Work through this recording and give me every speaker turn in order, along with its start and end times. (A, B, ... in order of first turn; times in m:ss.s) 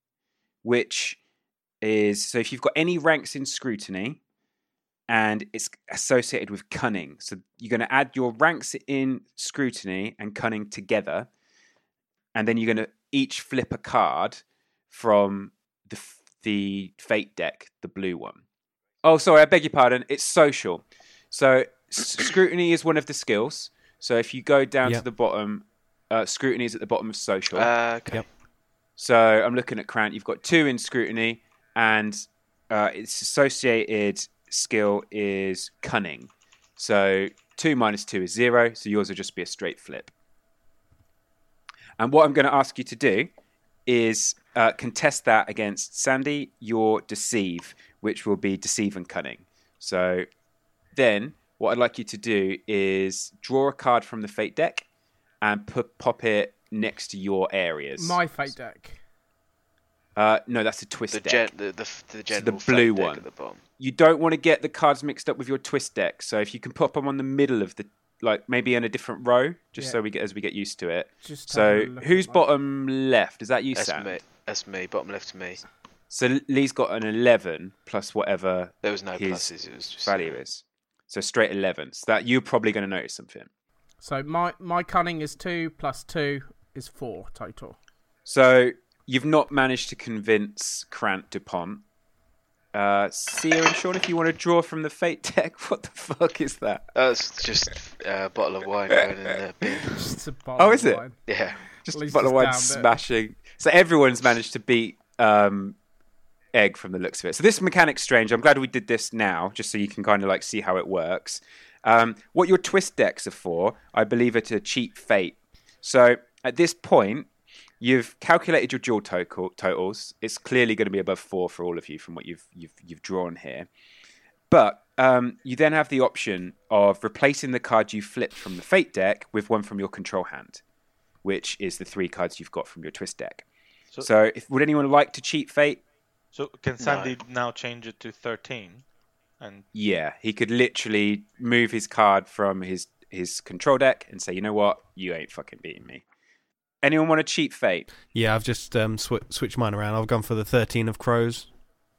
0:00.6-0:01.2 A
0:01.8-0:04.2 A
0:05.1-0:11.3 A
0:12.3-0:18.4 A
0:19.0-0:27.7 A
0:27.5-0:28.2 B
0:29.0-0:40.1 A
0:42.0-0:43.3 A
0:43.8-0:50.3 A
0:50.9-0:54.8 A
0:55.4-0:58.3 A
0:58.0-0:59.0 C
1:00.2-1:01.5 A
1:01.1-1:03.6 B
1:02.3-1:03.2 A
1:03.8-1:14.2 A
1:11.2-1:12.4 C
1:13.7-1:15.6 B
1:16.1-1:23.5 A
1:18.8-1:20.4 B
1:24.0-1:27.8 C
1:28.2-1:31.8 A
1:32.7-1:36.8 A
1:36.9-1:39.8 B
1:39.9-1:41.2 C
1:40.6-1:41.1 A
1:41.2-1:41.6 B
1:41.8-1:45.8 A
1:41.8-1:42.9 C
1:46.5-2:03.7 A
2:04.5-2:10.6 A
2:11.2-2:13.4 A
2:14.0-2:15.8 A
2:16.3-2:18.8 D
2:16.8-2:17.2 B
2:19.4-2:19.6 D
2:19.7-2:26.0 A
2:26.8-2:27.9 A
2:28.1-2:31.5 E